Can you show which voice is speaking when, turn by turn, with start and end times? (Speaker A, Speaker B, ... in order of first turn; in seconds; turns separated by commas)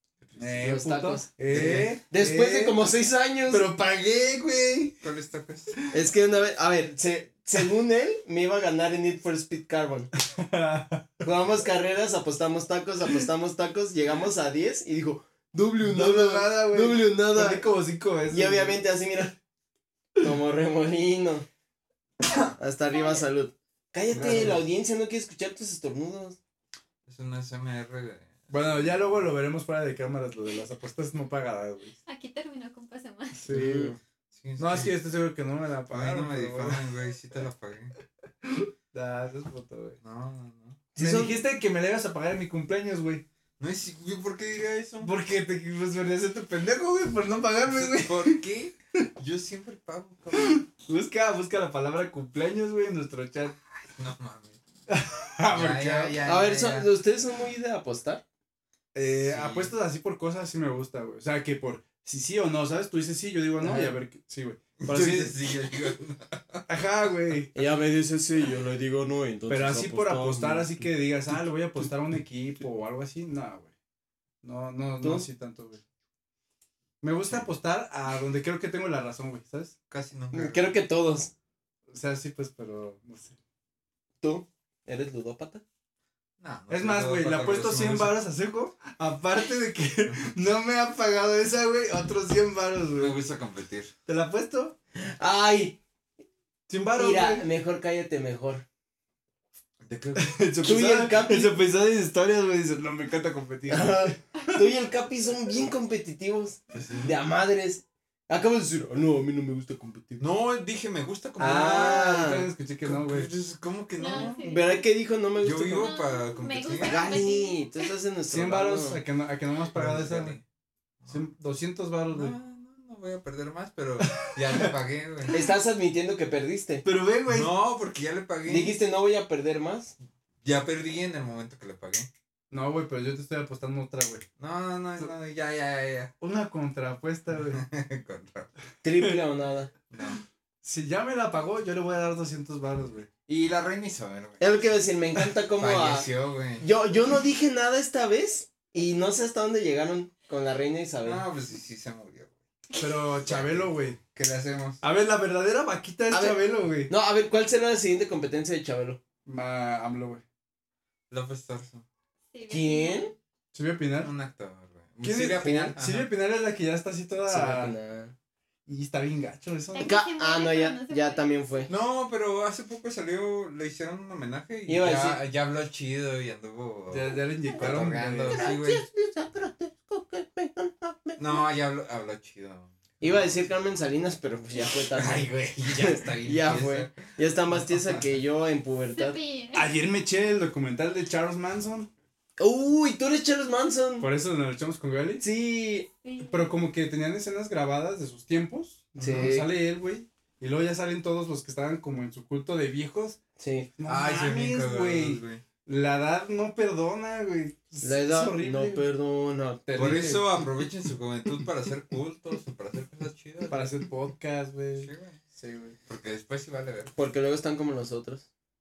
Speaker A: 0.2-0.7, Speaker B: 0.4-2.8, Speaker C: 0.5-3.7, Speaker A: 1.5-1.9, Speaker B: 3.5-4.9, Speaker A: 5.0-5.8, Speaker C: 5.9-10.1, Speaker B: 10.2-11.1, Speaker C: 11.2-17.7, Speaker B: 15.8-18.8, Speaker C: 18.3-19.4, Speaker C: 20.2-21.4, Speaker C: 22.6-26.4, Speaker D: 22.9-23.2, Speaker A: 24.1-24.6, Speaker B: 24.1-24.6, Speaker A: 27.1-29.3, Speaker B: 28.5-31.9, Speaker D: 32.0-33.4, Speaker B: 33.4-34.0, Speaker C: 33.5-34.0, Speaker A: 34.3-34.9, Speaker B: 34.6-36.8, Speaker A: 35.9-37.9, Speaker B: 38.4-40.0, Speaker A: 40.0-40.8, Speaker C: 40.9-41.4, Speaker B: 41.0-43.2, Speaker A: 43.6-45.1, Speaker B: 45.0-48.4, Speaker A: 47.7-50.6, Speaker B: 50.4-53.5, Speaker A: 53.7-54.6, Speaker B: 54.9-56.2, Speaker A: 55.5-56.9, Speaker C: 56.2-58.2, Speaker B: 58.9-65.3, Speaker A: 59.0-59.7, Speaker C: 63.6-64.0, Speaker A: 64.8-66.6, Speaker B: 66.7-67.5, Speaker C: 67.5-71.9, Speaker B: 69.5-73.7, Speaker B: 74.4-75.8, Speaker C: 75.0-75.3, Speaker B: 77.0-79.7, Speaker A: 79.9-80.8, Speaker C: 80.3-81.3, Speaker B: 81.9-83.3, Speaker C: 84.2-85.6, Speaker A: 86.4-88.2, Speaker B: 86.7-93.2, Speaker A: 93.0-93.9, Speaker B: 94.0-94.8, Speaker C: 94.9-95.8, Speaker B: 96.7-97.4, Speaker C: 97.0-98.6, Speaker A: 99.8-100.4, Speaker B: 100.2-104.6, Speaker C: 100.6-101.6, Speaker C: 103.7-110.2, Speaker A: 106.7-107.1, Speaker A: 110.2-112.2, Speaker C: 111.4-112.5, Speaker B: 111.4-113.3, Speaker A: 112.8-114.5, Speaker D: 114.0-114.9, Speaker C: 114.2-115.9, Speaker A: 115.4-117.2, Speaker D: 115.7-117.9, Speaker C: 116.8-119.0, Speaker B: 118.3-120.4, Speaker A: 119.7-120.4, Speaker B: 121.1-122.3, Speaker A: 122.1-125.4, Speaker B: 124.0-124.7, Speaker C: 125.3-126.8, Speaker B: 126.8-127.5, Speaker A: 127.3-128.8, Speaker C: 128.5-129.9, Speaker A: 130.4-132.1, Speaker B: 132.5-134.2, Speaker A: 134.4-136.1, Speaker B: 136.2-137.6, Speaker A: 137.5-138.5, Speaker C: 138.8-139.7, Speaker A: 139.9-140.2, Speaker B: 140.6-143.1, Speaker A: 143.3-144.8, Speaker C: 144.4-146.1, Speaker A: 145.5-146.7, Speaker C: 146.6-151.2, Speaker A: 151.0-152.3, Speaker B: 152.8-154.0, Speaker A: 153.2-154.8, Speaker B: 154.8-156.9, Speaker C: 156.1-159.0, Speaker B: 159.2-160.2, Speaker A: 161.1-161.8, Speaker D: 162.3-163.1, Speaker C: 162.5-163.1, Speaker B: 163.5-164.1, Speaker A: 164.0-166.1, Speaker B: 165.0-167.7, Speaker C: 167.3-168.1, Speaker B: 168.7-169.9, Speaker D: 169.7-171.3, Speaker C: 169.8-171.7, Speaker A: 171.7-178.8, Speaker C: 174.7-175.2, Speaker B: 176.9-178.4, Speaker C: 178.2-181.4, Speaker A: 181.2-183.3, Speaker C: 183.0-189.2, Speaker A: 184.5-187.0, Speaker A: 187.6-188.1, Speaker D: 188.9-189.7, Speaker B: 189.5-191.9, Speaker C: 192.4-194.1, Speaker B: 194.0-195.2, Speaker C: 195.2-195.9, Speaker D: 196.0-196.5, Speaker B: 196.2-203.2, Speaker A: 199.0-199.3, Speaker C: 199.0-199.5, Speaker C: 203.4-203.7, Speaker B: 203.8-208.8, Speaker A: 203.8-205.4, Speaker C: 207.8-209.7, Speaker B: 209.7-210.4, Speaker A: 209.8-213.7, Speaker B: 213.5-215.7, Speaker A: 214.8-215.2, Speaker A: 215.9-216.9, Speaker C: 216.9-218.3